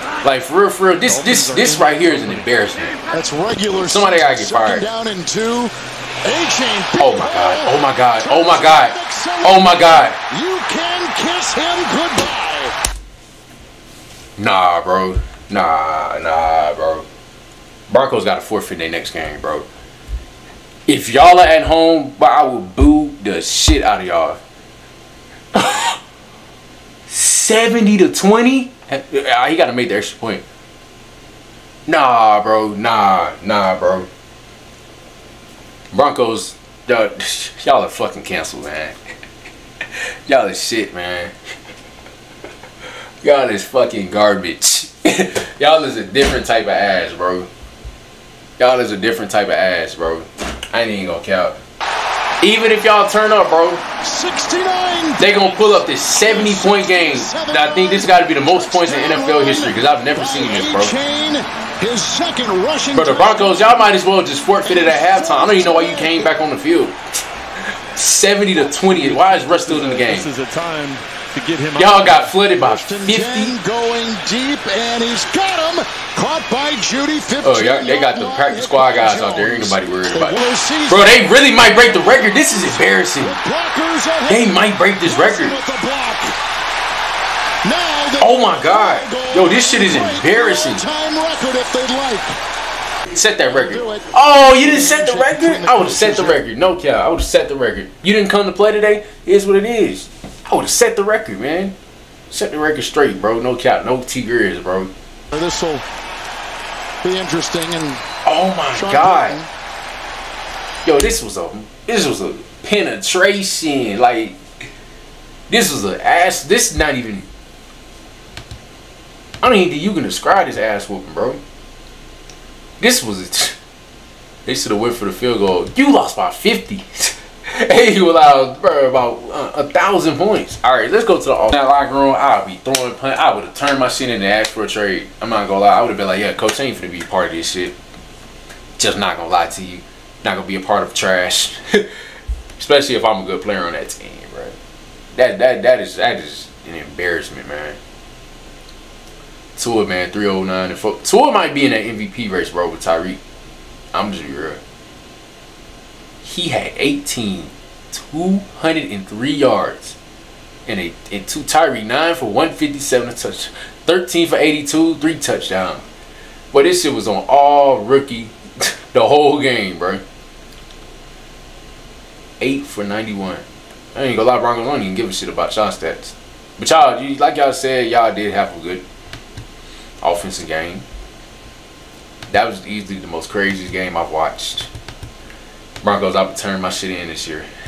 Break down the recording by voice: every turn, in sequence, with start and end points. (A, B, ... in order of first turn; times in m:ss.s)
0:00.2-0:03.0 A
0:01.1-0:02.5 B
0:03.1-0:05.7 C
0:03.7-0:04.9 A
0:06.2-0:12.7 C
0:07.0-0:10.2 A
0:14.4-0:17.0 A
0:17.9-0:19.6 A
0:20.9-0:24.4 A
0:25.5-0:26.0 A
0:27.1-0:30.4 A
0:31.9-0:34.1 A
0:35.9-0:39.0 A
0:40.3-0:41.3 A
0:43.2-0:47.5 A
0:48.6-0:51.6 A
0:52.4-0:53.8 A
0:54.0-1:03.7 C
0:55.2-1:00.9 A
1:02.9-1:07.0 A
1:04.6-1:06.3 C
1:07.7-1:10.3 A
1:08.9-1:12.3 B
1:11.8-1:13.6 A
1:12.6-1:21.2 C
1:17.4-1:23.4 A
1:23.2-1:26.4 C
1:24.3-1:25.6 A
1:27.6-1:32.4 C
1:28.2-1:30.8 A
1:33.1-1:41.7 A
1:33.4-1:36.4 C
1:42.3-1:44.9 A
1:45.3-1:45.8 C
1:47.0-1:48.0 C
1:48.2-1:49.4 A
1:48.7-1:49.5 C
1:50.8-1:54.4 A
1:55.5-1:57.3 A
1:59.4-2:01.4 A
2:02.8-2:03.6 A
2:04.4-2:17.8 A
2:18.8-2:21.9 A
2:22.6-2:24.6 A
2:25.1-2:27.8 A
2:29.6-2:33.2 A
2:33.9-2:34.6 A
2:36.2-2:40.0 A
2:40.6-2:45.8 A
2:46.5-2:48.4 A
2:48.9-2:50.0 A
2:52.4-2:58.8 A
3:00.0-3:00.8 A
3:02.3-3:04.7 A
3:05.8-3:07.5 A